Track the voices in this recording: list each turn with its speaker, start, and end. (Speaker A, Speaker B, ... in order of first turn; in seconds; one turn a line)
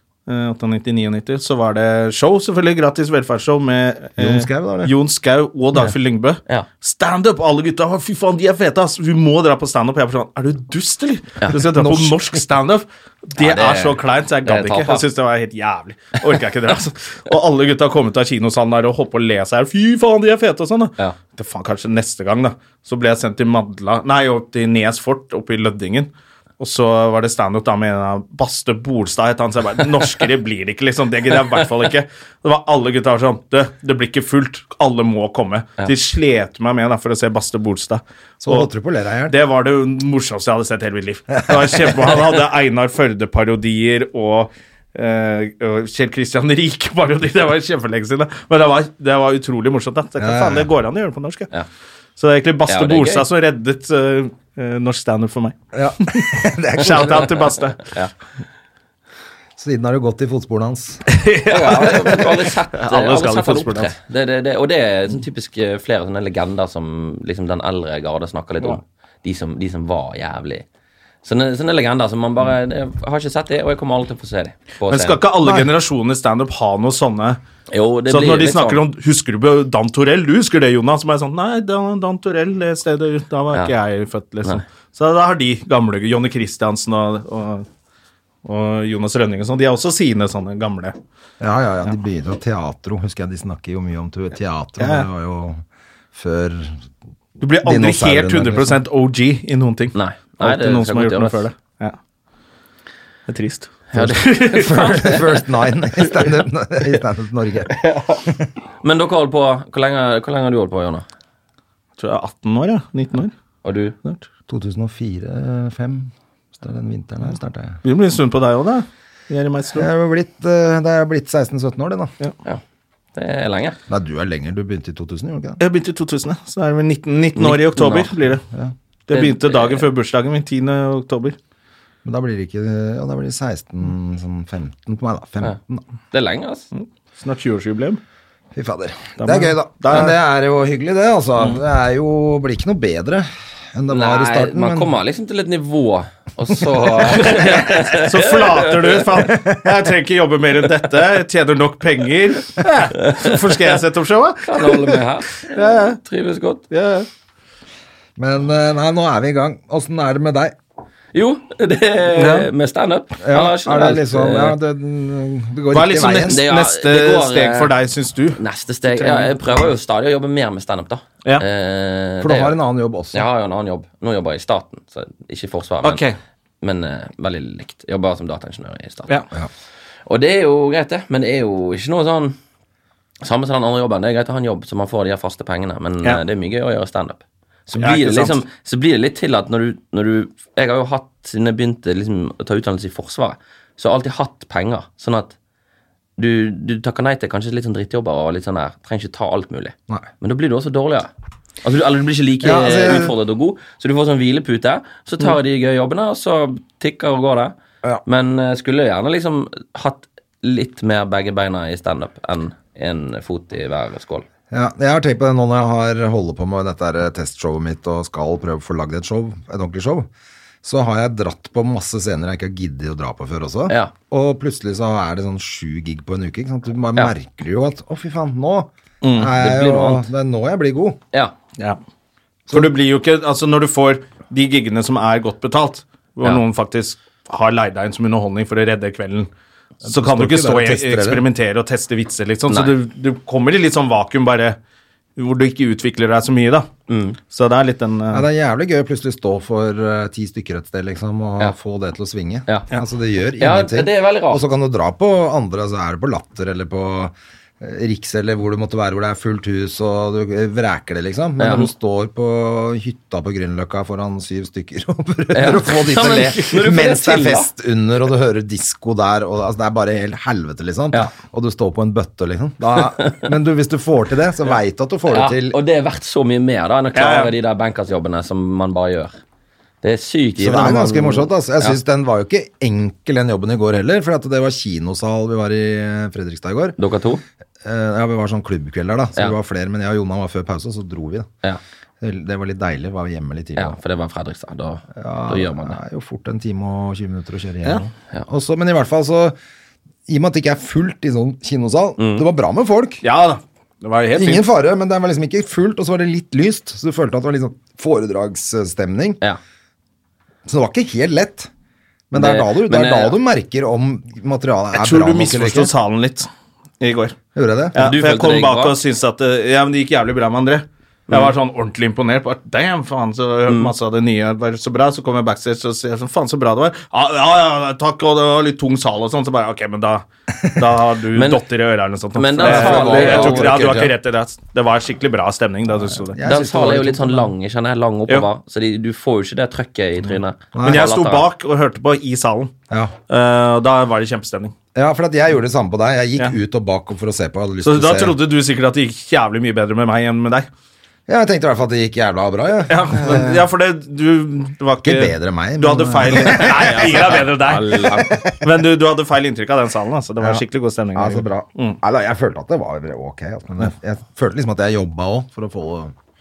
Speaker A: 0.3-38.7
Speaker B: 4.2-4.9
Speaker B: 11.6-12.4
Speaker C: 13.4-15.1
Speaker B: 38.4-39.4
Speaker A: 39.3-51.5
Speaker B: 41.5-41.9
Speaker B: 50.2-50.7
Speaker A: 52.2-57.9
Speaker C: 52.7-53.3
Speaker B: 55.7-57.3
Speaker C: 57.8-58.1
Speaker B: 59.6-61.0
Speaker A: 61.1-63.9
Speaker C: 61.5-70.7
Speaker C: 71.2-75.2
Speaker A: 74.9-77.4
Speaker C: 77.7-78.8
Speaker A: 78.1-87.7
Speaker A: 88.5-91.0
Speaker B: 91.4-95.6
Speaker A: 94.8-95.1
Speaker B: 96.1-96.8
Speaker A: 97.4-102.0
Speaker B: 97.6-98.8
Speaker C: 99.9-101.5
Speaker A: 103.3-104.8
Speaker C: 103.9-105.5
Speaker B: 104.0-107.7
Speaker C: 108.8-111.0
Speaker A: 112.0-113.3
Speaker C: 113.6-114.0
Speaker B: 114.5-117.8
Speaker A: 117.8-119.9
Speaker B: 119.8-122.1
Speaker C: 123.2-123.8
Speaker B: 123.9-125.6
Speaker A: 125.6-128.4
Speaker C: 127.4-128.1
Speaker A: 129.1-131.4
Speaker C: 129.1-129.9
Speaker B: 132.1-135.8
Speaker C: 136.1-136.7
Speaker A: 136.7-138.0
Speaker B: 138.6-144.9
Speaker A: 139.2-140.2
Speaker C: 143.9-149.3
Speaker A: 147.1-156.0
Speaker C: 153.0-153.7
Speaker C: 154.4-156.6
Speaker A: 156.7-157.1
Speaker B: 158.2-160.6
Speaker C: 161.1-164.6
Speaker A: 162.2-162.5
Speaker B: 163.2-166.4
Speaker A: 165.7-169.6
Speaker C: 166.3-167.7
Speaker C: 168.4-172.6
Speaker B: 172.2-173.3
Speaker C: 173.1-176.0
Speaker A: 175.8-176.2
Speaker C: 176.6-179.1
Speaker C: 180.1-182.4
Speaker C: 183.2-195.3
Speaker A: 187.8-188.4
Speaker C: 196.2-201.1
Speaker C: 201.6-207.5
Speaker B: 202.4-203.1
Speaker C: 208.1-214.2
Speaker B: 214.5-220.1
Speaker B: 220.6-231.0
Speaker A: 229.0-229.3
Speaker C: 229.4-230.1
Speaker A: 232.5-239.3
Speaker B: 239.8-241.2
Speaker A: 239.9-244.6
Speaker C: 242.5-242.8
Speaker A: 245.2-246.7
Speaker C: 246.9-247.2
Speaker A: 247.3-248.2
Speaker B: 248.1-275.6
Speaker C: 253.4-254.4
Speaker C: 261.4-261.7
Speaker C: 265.3-267.5
Speaker C: 272.8-273.3
Speaker C: 275.1-279.2
Speaker A: 276.9-277.3
Speaker C: 279.8-281.8
Speaker B: 280.4-286.8
Speaker C: 286.8-287.2
Speaker B: 287.6-291.3
Speaker B: 292.0-293.8
Speaker C: 293.6-295.8
Speaker B: 294.9-299.4
Speaker B: 300.1-303.0
Speaker C: 302.0-302.3
Speaker A: 303.0-304.4
Speaker B: 304.1-309.2
Speaker B: 310.5-311.5
Speaker B: 312.1-315.7
Speaker C: 312.1-313.2
Speaker A: 314.7-316.3
Speaker A: 316.8-317.2
Speaker B: 317.4-317.8
Speaker A: 317.8-336.2
Speaker C: 317.8-318.8
Speaker C: 323.5-323.7
Speaker C: 331.1-331.4
Speaker C: 332.1-333.7
Speaker B: 332.4-333.9
Speaker B: 336.1-337.3
Speaker C: 336.2-341.3
Speaker B: 340.5-340.9
Speaker A: 340.6-342.5
Speaker A: 343.1-344.6
Speaker B: 344.8-348.2
Speaker A: 347.6-350.5
Speaker B: 351.1-353.4
Speaker A: 352.7-361.8
Speaker B: 354.8-357.2
Speaker C: 356.4-358.2
Speaker B: 358.1-358.4
Speaker B: 360.9-365.9